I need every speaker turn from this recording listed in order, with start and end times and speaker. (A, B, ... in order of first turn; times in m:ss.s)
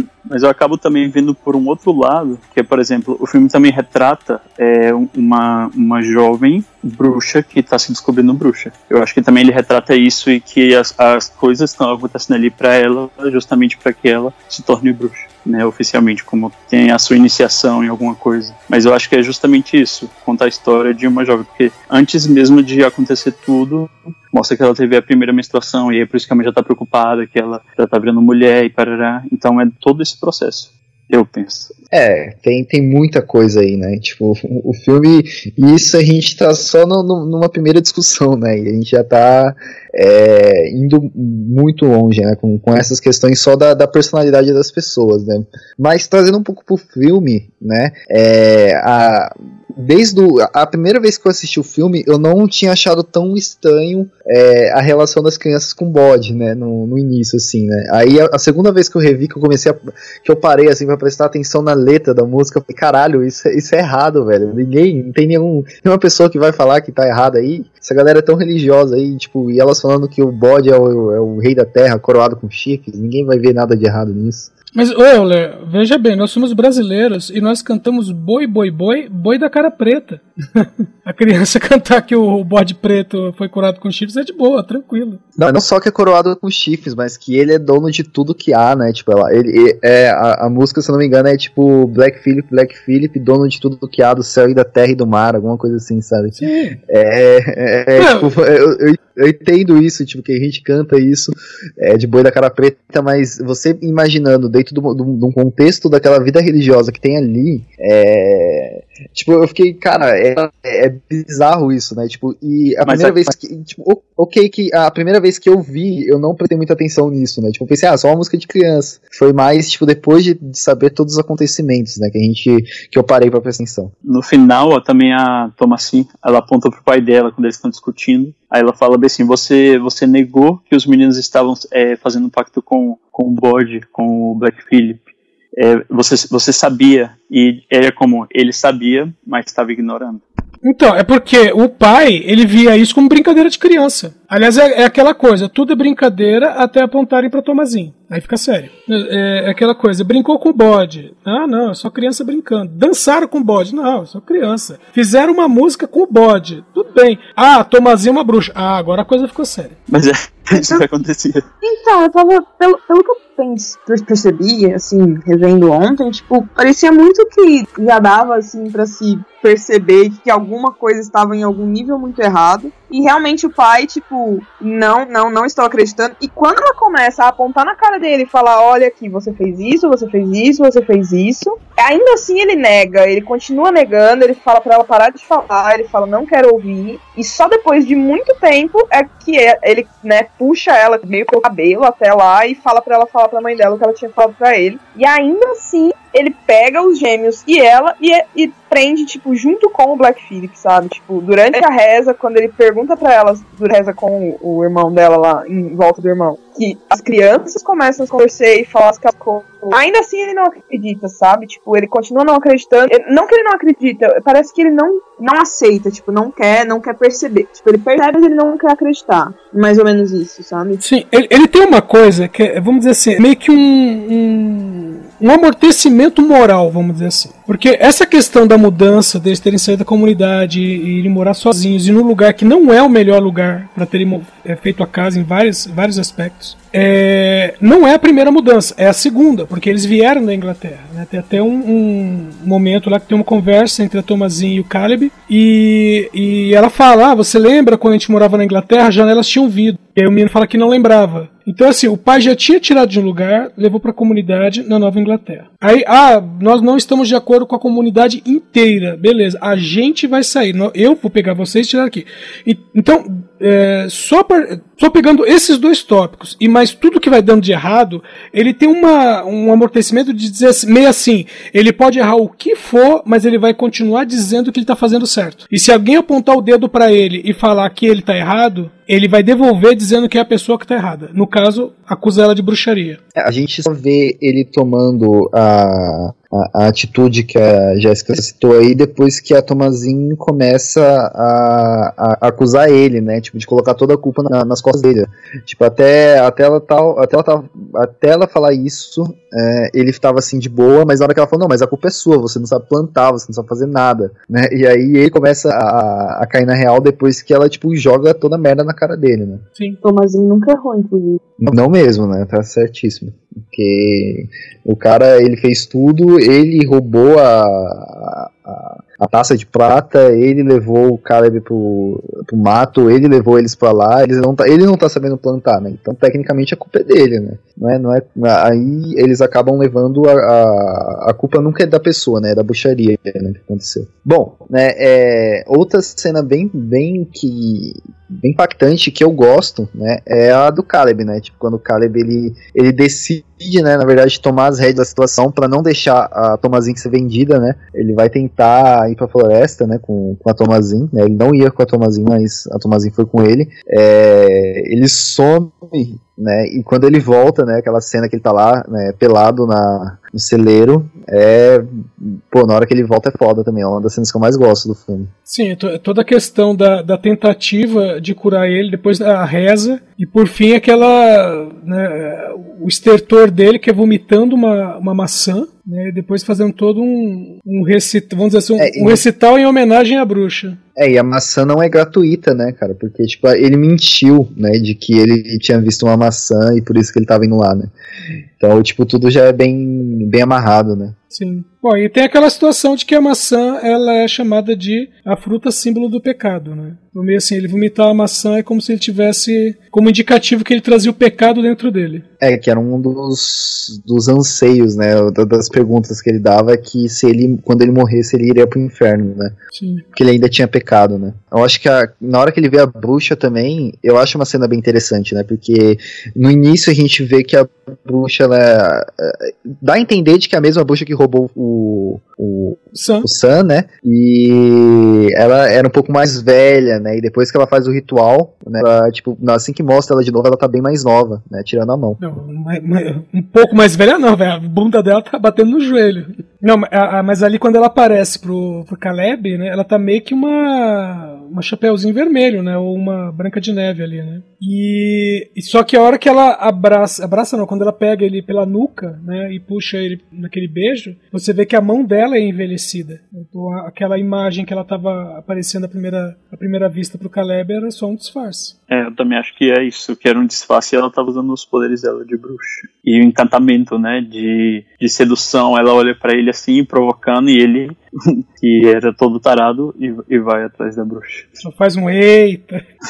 0:00.2-0:31.7 A
0:31.9-1:14.5 B
1:14.7-1:25.2 C
1:25.4-2:03.9 B
1:36.4-1:36.8 C
1:38.0-1:38.3 C
1:52.8-1:53.2 A
2:04.0-2:15.0 A
2:15.6-2:20.2 A
2:20.6-2:39.7 C
2:39.9-2:41.4 A
2:40.5-2:40.8 D
2:41.6-3:40.8 D
3:40.8-4:43.0 C
4:43.1-5:09.4 B
5:09.8-5:11.2 D
5:11.4-6:05.1 B
6:05.3-6:20.6 C
6:18.6-6:19.0 B
6:20.8-6:27.7 B
6:28.4-6:31.0 B
6:31.1-6:42.0 C
6:42.2-6:49.3 B
6:49.5-6:49.8 C
6:49.9-7:12.0 B
7:02.7-7:03.1 C
7:12.0-7:38.5 C
7:38.7-7:51.3 A
7:51.4-7:52.6 C